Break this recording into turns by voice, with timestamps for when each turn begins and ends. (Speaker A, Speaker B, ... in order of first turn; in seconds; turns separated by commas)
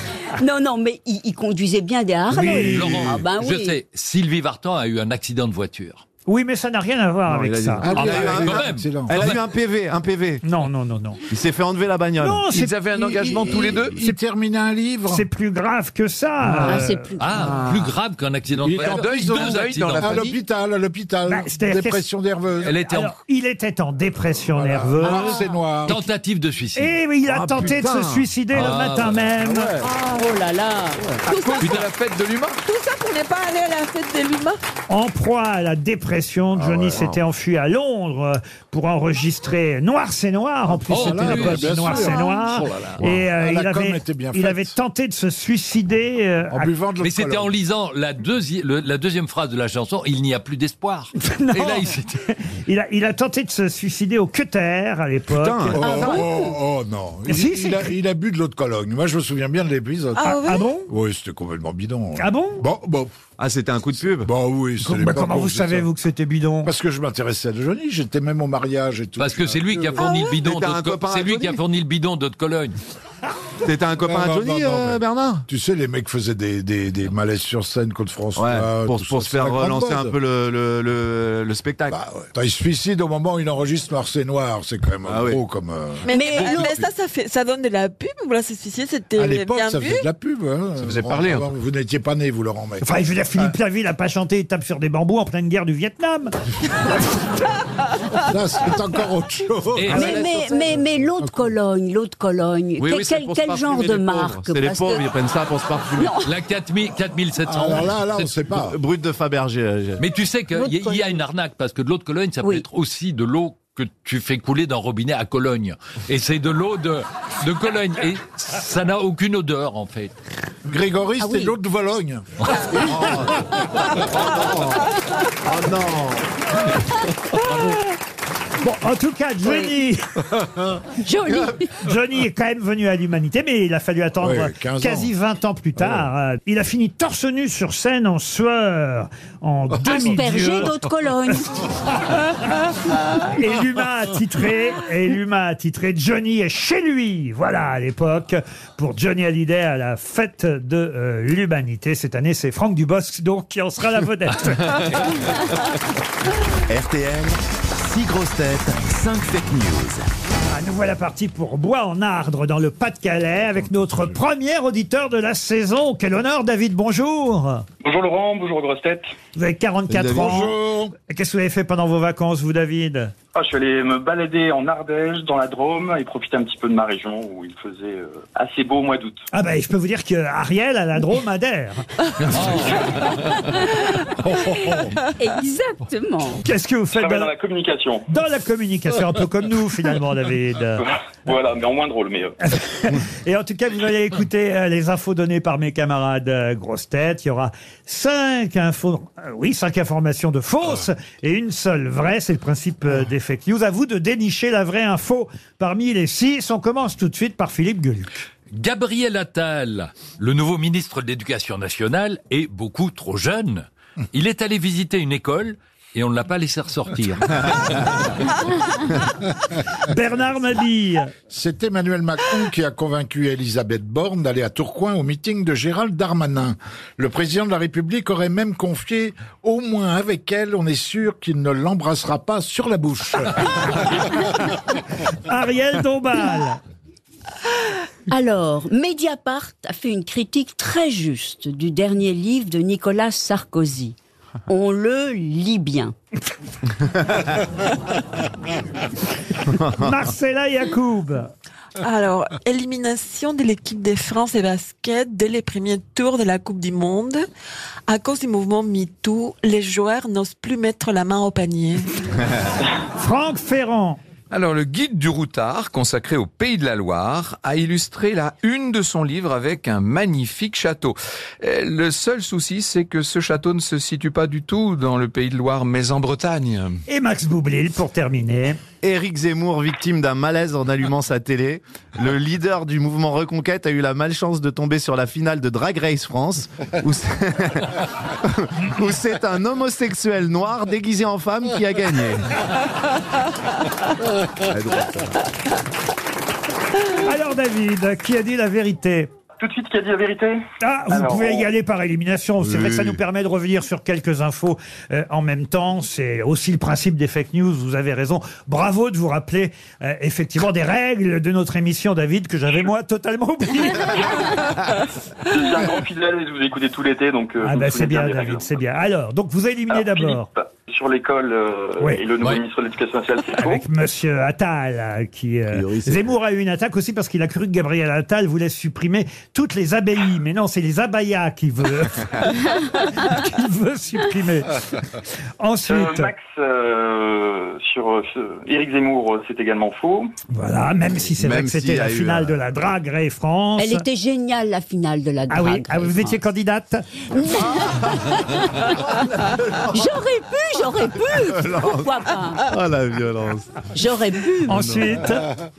Speaker A: 0.3-3.8, Speaker B: 2.3-2.9, Speaker C: 2.5-6.0, Speaker B: 6.3-7.9, Speaker D: 7.3-10.4, Speaker E: 7.8-9.3, Speaker C: 8.0-9.4, Speaker B: 10.4-11.2, Speaker D: 11.3-12.4, Speaker B: 12.2-12.8, Speaker F: 12.5-14.0, Speaker E: 12.9-15.2, Speaker B: 13.4-14.2, Speaker B: 15.1-17.1, Speaker A: 16.6-17.2, Speaker C: 17.2-20.1, Speaker E: 18.6-22.8, Speaker F: 18.9-20.4, Speaker B: 21.3-22.0, Speaker C: 22.6-23.1, Speaker B: 22.8-25.4, Speaker E: 24.5-26.0, Speaker C: 25.9-26.9, Speaker B: 26.8-29.8, Speaker D: 27.3-28.3, Speaker C: 28.5-29.3, Speaker A: 29.8-31.1, Speaker G: 31.2-31.9, Speaker F: 31.4-32.6, Speaker C: 31.6-31.9, Speaker G: 32.6-34.6, Speaker B: 34.9-46.7, Speaker E: 36.5-37.1, Speaker E: 40.7-42.2, Speaker C: 40.9-42.1, Speaker G: 42.0-42.5, Speaker E: 43.0-44.7, Speaker E: 46.5-47.5, Speaker C: 47.0-52.1, Speaker B: 51.2-56.2, Speaker D: 55.3-56.3, Speaker E: 55.7-60.3, Speaker B: 57.3-57.9, Speaker G: 60.1-60.7, Speaker B: 60.2-60.9, Speaker E: 60.9-63.1, Speaker B: 62.2-62.6, Speaker D: 63.4-64.3, Speaker E: 64.2-65.9, Speaker B: 64.8-66.7, Speaker E: 66.6-70.1, Speaker C: 69.2-72.8, Speaker G: 70.0-70.3, Speaker D: 70.4-71.6, Speaker D: 73.6-75.5, Speaker E: 74.0-80.1, Speaker D: 78.3-82.0, Speaker E: 81.9-86.7, Speaker D: 85.0-85.4, Speaker G: 86.0-90.0, Speaker A: 86.1-86.8, Speaker E: 89.2-92.8, Speaker B: 92.8-96.3, Speaker E: 98.2-100.2, Speaker C: 99.7-100.2, Speaker D: 99.9-100.7, Speaker A: 99.9-105.1, Speaker D: 102.8-106.2, Speaker A: 106.0-106.3, Speaker C: 106.2-108.3, Speaker E: 107.4-108.8, Speaker D: 108.6-110.0, Speaker C: 110.0-120.1, Speaker A: 110.5-111.2, Speaker E: 120.7-122.2, Speaker A: 121.2-121.5, Speaker D: 122.7-124.9, Speaker D: 125.4-126.2, Speaker B: 127.3-127.8, Speaker B: 128.6-130.2, Speaker A: 131.0-131.7, Speaker B: 131.8-140.7, Speaker E: 134.2-135.1, Speaker A: 139.8-141.7, Speaker E: 139.9-140.2, Speaker B: 141.9-142.2, Speaker B: 143.2-154.9, Speaker H: 156.7-160.1, Speaker B: 160.5-167.6, Speaker I: 167.8-169.1, Speaker B: 169.3-173.1, Speaker D: 169.9-170.4, Speaker E: 170.1-170.9, Speaker I: 173.3-179.2, Speaker B: 179.3-182.4, Speaker C: 182.3-183.1, Speaker A: 185.2-186.4, Speaker B: 186.4-187.3, Speaker I: 186.9-188.1, Speaker B: 188.1-190.8, Speaker I: 190.8-192.3, Speaker B: 192.5-208.2, Speaker C: 208.5-218.0, Speaker B: 219.8-221.1, Speaker E: 221.3-233.9, Speaker B: 235.2-236.6, Speaker A: 238.1-243.9, Speaker A: 244.5-245.9, Speaker D: 249.6-249.9, Speaker B: 249.7-251.3, Speaker G: 251.8-257.2, Speaker G: 257.9-261.9, Speaker B: 263.0-264.0, Speaker F: 264.3-276.8, Speaker B: 276.9-278.6, Speaker D: 278.8-292.2, Speaker D: 294.4-295.1, Speaker B: 296.9-299.1, Speaker I: 299.4-301.5, Speaker B: 300.6-314.4, Speaker D: 302.4-303.0, Speaker I: 315.3-318.5, Speaker B: 317.4-320.3, Speaker I: 319.7-323.6, Speaker B: 323.4-334.6, Speaker D: 325.5-326.1, Speaker B: 335.4-336.1, Speaker I: 335.7-340.1, Speaker B: 340.3-343.8, Speaker D: 341.1-342.3, Speaker A: 343.6-346.2, Speaker B: 345.3-347.1, Speaker A: 347.2-349.0, Speaker D: 349.2-349.9, Speaker A: 349.6-352.5, Speaker D: 351.1-353.5, Speaker A: 353.7-354.8, Speaker B: 354.5-355.3